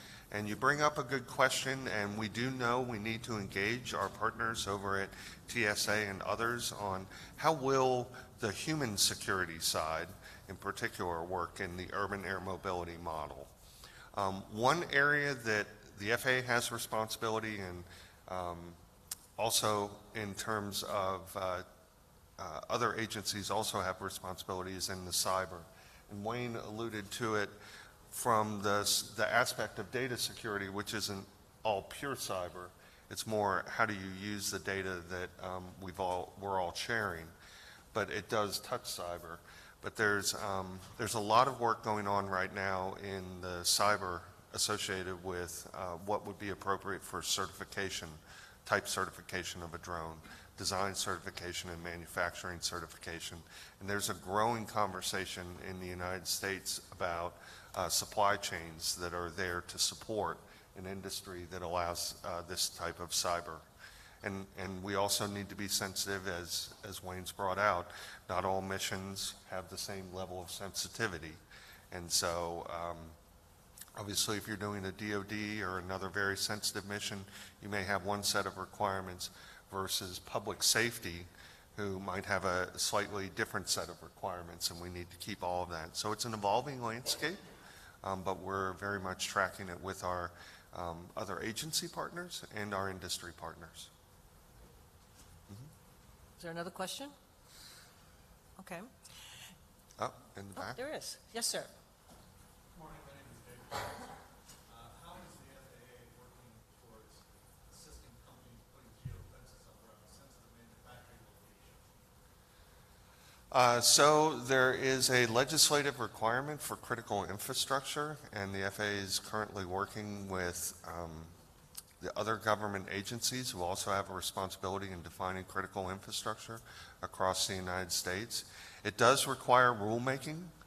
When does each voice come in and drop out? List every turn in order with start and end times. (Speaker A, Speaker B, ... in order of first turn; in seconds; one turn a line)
Speaker A: 0.3-13.5
Speaker A: 14.1-18.8
Speaker A: 19.4-21.6
Speaker A: 22.4-27.5
Speaker A: 28.1-37.3
Speaker A: 37.9-63.6
Speaker A: 64.2-71.4
Speaker A: 71.9-73.2
Speaker A: 74.0-87.4
Speaker A: 88.0-93.9
Speaker B: 96.4-97.1
Speaker B: 98.6-98.9
Speaker A: 100.0-100.8
Speaker B: 100.5-101.7
Speaker C: 102.7-112.0
Speaker A: 113.5-121.3
Speaker A: 122.0-130.5